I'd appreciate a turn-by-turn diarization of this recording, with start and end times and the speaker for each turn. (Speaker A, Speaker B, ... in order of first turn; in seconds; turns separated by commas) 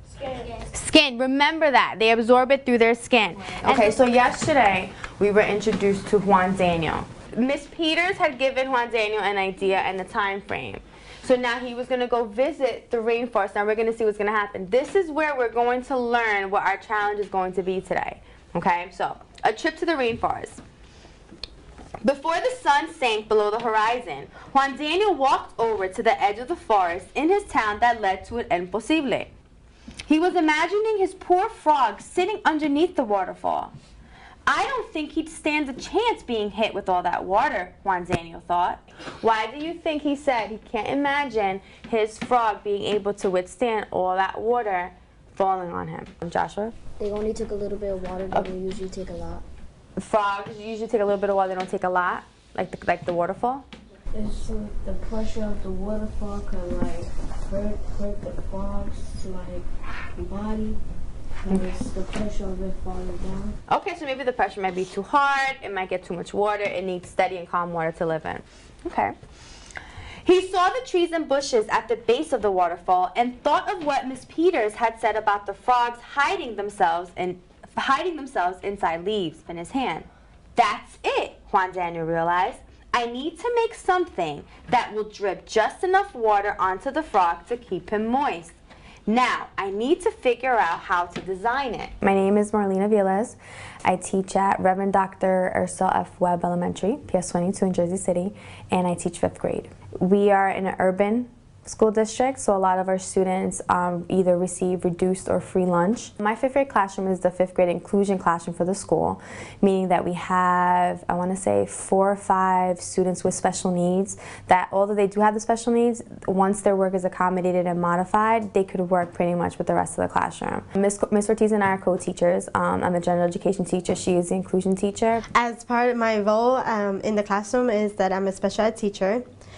Speaker A: 0.2-0.6, Speaker B: 0.7-20.6, Speaker B: 22.0-29.3, Speaker B: 30.1-33.7, Speaker B: 34.5-46.8, Speaker A: 47.0-49.4, Speaker B: 50.0-53.7, Speaker A: 54.1-60.8, Speaker A: 61.4-63.5, Speaker B: 61.5-61.8, Speaker B: 63.7-69.2, Speaker B: 70.2-88.6, Speaker B: 89.1-125.2, Speaker C: 125.3-129.2